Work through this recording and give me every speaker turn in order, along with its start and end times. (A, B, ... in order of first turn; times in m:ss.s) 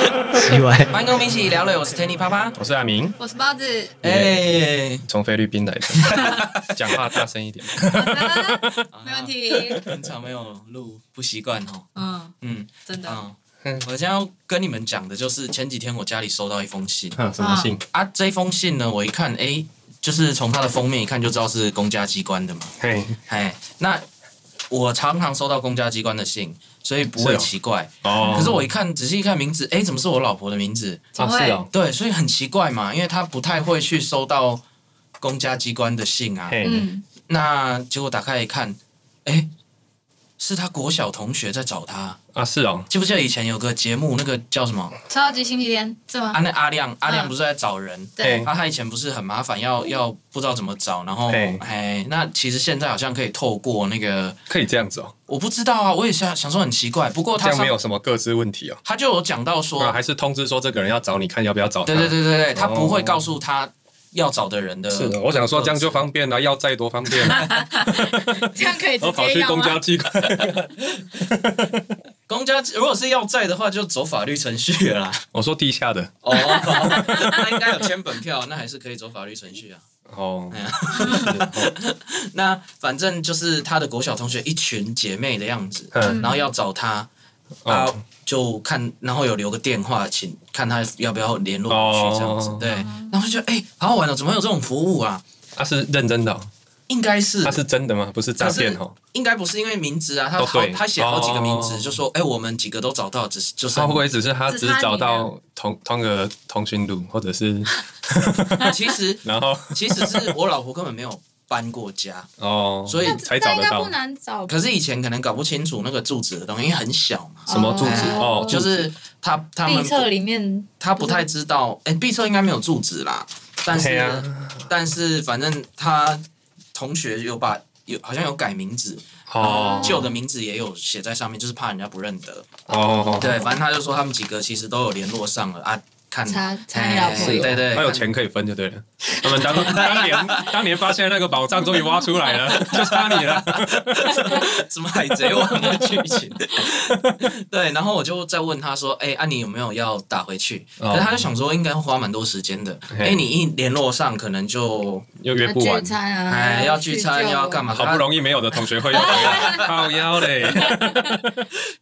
0:00.4-0:00.8 A
0:00.4-0:02.6 B
0:02.6-0:03.2 A
0:03.2-0:04.0 C
0:04.0-0:05.0 B
0:04.0-0:04.5 A
0:05.0-0:08.8 A
0:05.9-0:07.2 B
0:06.1-0:06.5 C
0:07.8-0:09.8 C
0:08.9-0:11.9 B
0:12.0-0:12.4 C
0:12.4-0:17.2 B
0:12.9-0:13.2 C
0:17.2-0:17.8 A
0:17.4-0:17.8 C
0:17.9-0:22.8 B
0:22.8-0:23.2 A
0:23.3-0:24.0 B
0:24.7-0:31.0 B
0:27.2-0:27.5 A
0:28.0-0:28.6 A
0:28.2-0:28.5 C
0:31.2-0:31.6 C
0:31.2-0:31.7 A
0:31.7-0:34.6 B
0:35.2-0:36.6 B
0:36.5-0:36.9 A
0:36.6-0:37.0 C
0:37.3-0:39.5 B
0:40.4-0:42.2 B
0:42.3-0:42.9 A
0:42.9-0:45.0 B
0:45.1-0:46.4 C
0:46.3-0:54.4 B
0:47.0-0:47.3 C
0:48.2-0:48.5 C
0:48.2-0:48.5 A
0:51.3-0:51.6 A
0:54.5-0:55.1 A
0:55.3-0:57.7 B
0:57.4-0:58.8 A
0:58.8-1:00.0 B
0:59.8-1:03.2 A
1:01.8-1:06.0 B
1:04.9-1:11.9 A
1:07.2-1:07.5 B
1:07.3-1:09.8 C
1:10.4-1:11.0 B
1:12.3-1:15.3 B
1:15.3-1:17.4 A
1:16.2-1:19.8 B
1:16.3-1:17.3 C
1:20.1-1:21.7 A
1:20.5-1:27.1 B
1:25.9-1:26.3 A
1:26.0-1:26.4 C
1:27.6-1:28.0 A
1:27.7-1:35.2 B
1:31.7-1:32.6 A
1:32.6-1:33.2 C
1:35.6-1:36.5 A
1:36.9-1:37.6 B
1:37.4-1:39.0 A
1:38.4-1:44.0 B
1:40.4-1:42.0 A
1:43.7-1:48.7 A
1:44.5-1:45.3 C
1:48.6-1:52.3 B
1:49.2-1:50.3 A
1:52.4-1:53.9 A
1:52.9-1:53.2 B
1:53.0-1:54.6 C
1:54.5-2:00.1 B
1:57.5-1:58.6 C
1:57.5-1:58.8 A
1:59.6-2:01.2 C
2:00.8-2:06.2 B
2:03.7-2:04.7 A
2:06.7-2:18.1 B
2:09.3-2:10.1 A
2:09.4-2:10.1 C
2:12.7-2:13.5 A
2:13.0-2:13.6 C
2:16.3-2:17.6 C
2:17.0-2:24.4 A
2:19.2-2:20.6 C
2:19.4-2:20.5 B
2:21.6-2:22.8 C
2:22.5-2:35.1 B
2:26.7-2:27.3 A
2:30.8-2:31.2 A
2:32.9-2:33.2 A
2:35.2-2:35.9 A
2:35.4-2:37.7 C
2:36.3-2:40.7 B
2:37.7-2:41.5 A
2:38.9-2:39.9 C
2:40.5-2:41.2 C